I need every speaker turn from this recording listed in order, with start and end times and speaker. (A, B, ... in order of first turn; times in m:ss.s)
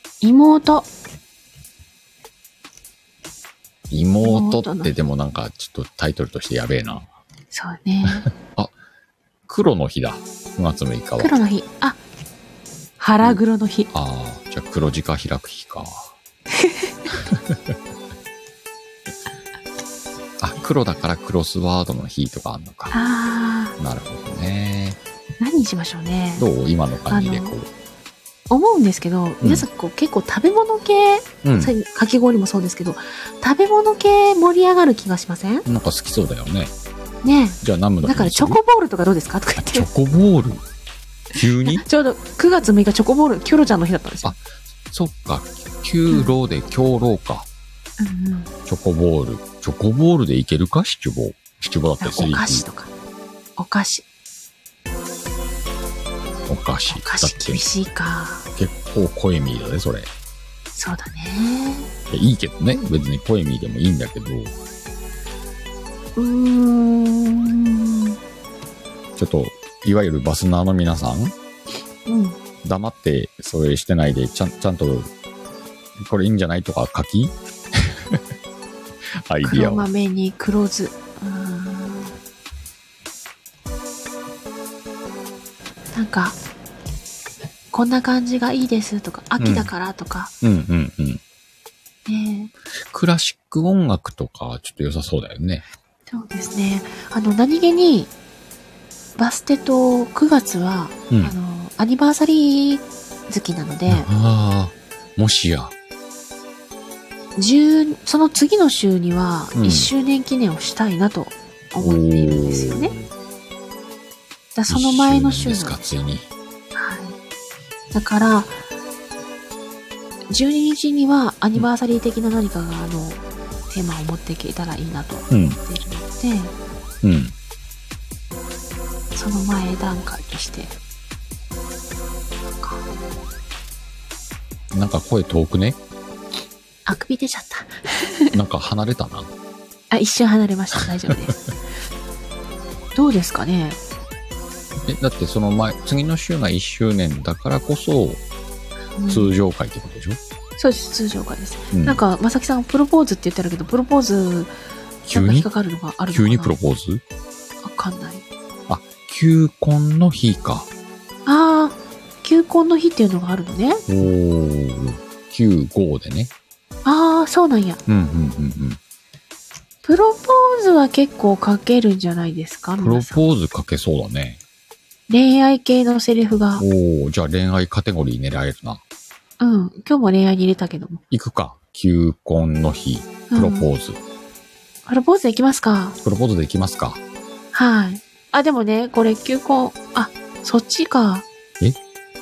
0:00.2-0:00.9 A
0:03.9-0:07.1 B
0:04.2-0:04.9 A
0:07.5-0:08.3 A
0:08.3-0:08.7 B
0:09.5-0:11.4 B
0:11.2-0:12.0 A
0:13.0-0:13.9 A
0:13.2-0:16.1 B
0:16.6-0:16.9 A
0:17.3-0:17.8 B
0:20.4-0:23.0 B
0:22.9-0:23.8 A
0:23.8-0:25.0 B
0:25.4-0:26.5 A
0:26.4-0:27.7 B
0:27.1-0:27.5 A
0:28.5-0:35.7 A
0:29.4-0:29.7 B
0:31.4-0:31.7 B
0:35.7-0:36.7 B
0:37.2-0:39.9 A
0:37.6-0:38.6 B
0:39.6-0:40.6 B
0:41.3-0:41.8 B
0:41.7-0:44.4 A
0:44.2-0:47.5 B
0:48.0-0:48.5 A
0:48.7-0:52.7 B
0:52.0-0:52.9 A
0:53.6-0:54.0 A
0:56.5-0:57.6 B
0:56.9-0:58.4 A
0:58.6-1:00.1 B
1:00.8-1:01.9 A
1:02.1-1:04.5 B
1:06.2-1:08.2 A
1:09.2-1:11.4 B
1:12.1-1:12.4 A
1:12.6-1:15.1 B
1:16.0-1:18.2 B
1:19.2-1:19.9 B
1:19.4-1:22.1 A
1:25.9-1:26.4 A
1:27.7-1:30.3 A
1:29.4-1:29.7 B
1:30.4-1:31.2 B
1:32.1-1:32.5 A
1:32.8-1:35.6 B
1:36.1-1:38.1 A
1:39.2-1:44.1 A
1:41.1-1:41.4 B
1:43.9-1:45.7 B
1:47.4-1:53.0 A
1:49.5-1:49.9 B
1:51.8-1:53.1 B
1:54.6-1:56.0 A
1:54.7-1:56.3 B
1:56.7-1:57.2 A
1:57.9-1:58.6 A
2:00.3-2:06.5 A
2:05.3-2:05.6 B
2:07.0-2:07.3 B
2:09.1-2:10.7 A
2:12.4-2:12.8 A
2:14.7-2:15.8 B
2:16.9-2:18.4 A
2:18.3-2:19.3 B
2:19.9-2:21.4 A
2:22.9-2:23.8 A
2:24.9-2:28.2 B
2:29.0-2:29.3 A
2:29.1-2:30.2 B
2:30.6-2:34.5 A
2:31.7-2:32.0 B
2:35.0-2:35.5 B
2:35.1-2:36.6 A
2:36.1-2:37.0 B
2:37.6-2:38.2 A
2:38.7-2:40.7 B
2:41.3-2:43.8 A
2:43.9-2:46.3 B
2:46.8-2:47.8 A
2:47.9-2:48.8 B
2:49.8-2:53.3 A
2:52.8-2:54.4 B
2:55.1-2:56.6 A
2:56.6-2:58.8 B
2:59.4-3:01.0 A
3:01.1-3:04.0 B
3:03.3-3:03.7 A
3:04.9-3:06.0 A
3:06.0-3:07.0 B
3:07.5-3:11.3 A